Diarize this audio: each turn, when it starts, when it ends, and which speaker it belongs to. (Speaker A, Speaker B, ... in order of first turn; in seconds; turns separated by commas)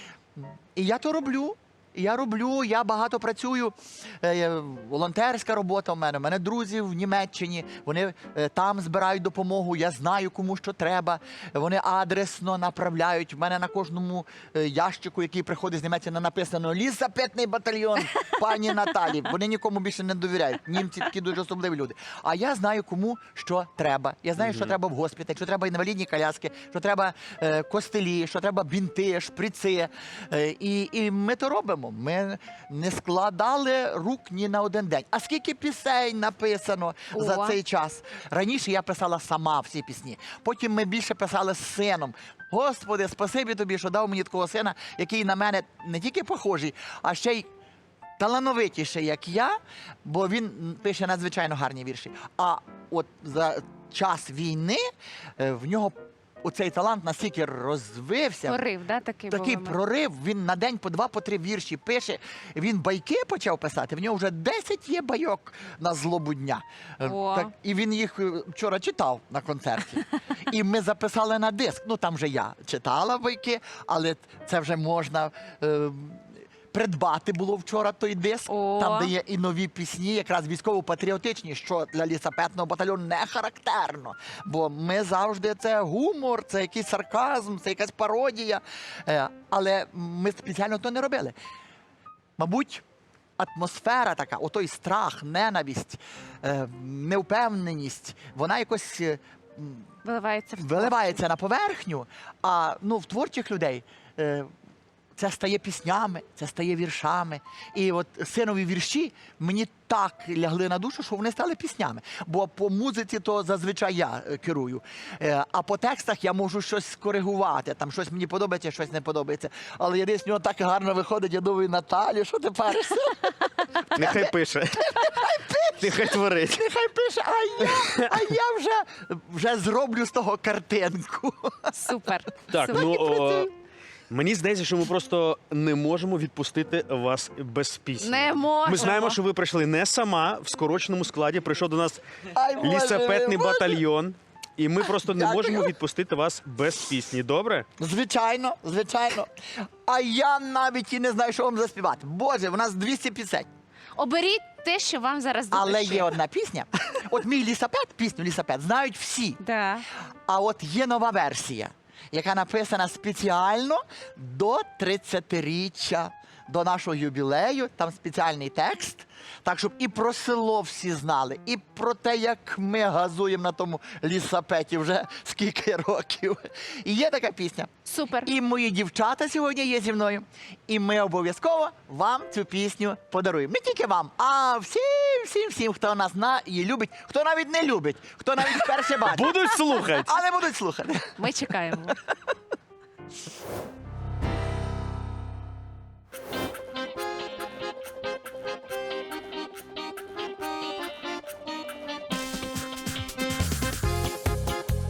Speaker A: 0.4-47.5, Speaker B: 24.4-24.7, Speaker C: 37.1-37.6, Speaker A: 48.2-54.8, Speaker A: 55.4-58.6, Speaker C: 58.5-59.8, Speaker A: 59.3-91.3, Speaker C: 67.0-67.5, Speaker C: 78.5-79.1, Speaker A: 92.4-92.8, Speaker A: 93.4-99.9, Speaker C: 100.0-101.0, Speaker A: 100.6-104.5, Speaker A: 105.2-131.8, Speaker B: 123.9-125.0, Speaker B: 125.8-126.6, Speaker B: 127.8-128.2, Speaker C: 131.8-133.0, Speaker B: 132.5-133.5, Speaker A: 132.7-133.5, Speaker B: 134.1-142.0, Speaker C: 138.0-139.2, Speaker A: 142.3-143.8, Speaker B: 142.6-147.7, Speaker A: 145.0-145.8, Speaker A: 147.8-149.3, Speaker A: 149.9-153.5, Speaker C: 154.0-156.1, Speaker A: 155.5-159.4, Speaker C: 159.4-159.8, Speaker A: 160.3-177.7, Speaker C: 177.8-178.3, Speaker A: 178.2-191.2, Speaker B: 188.7-190.2, Speaker C: 191.2-192.0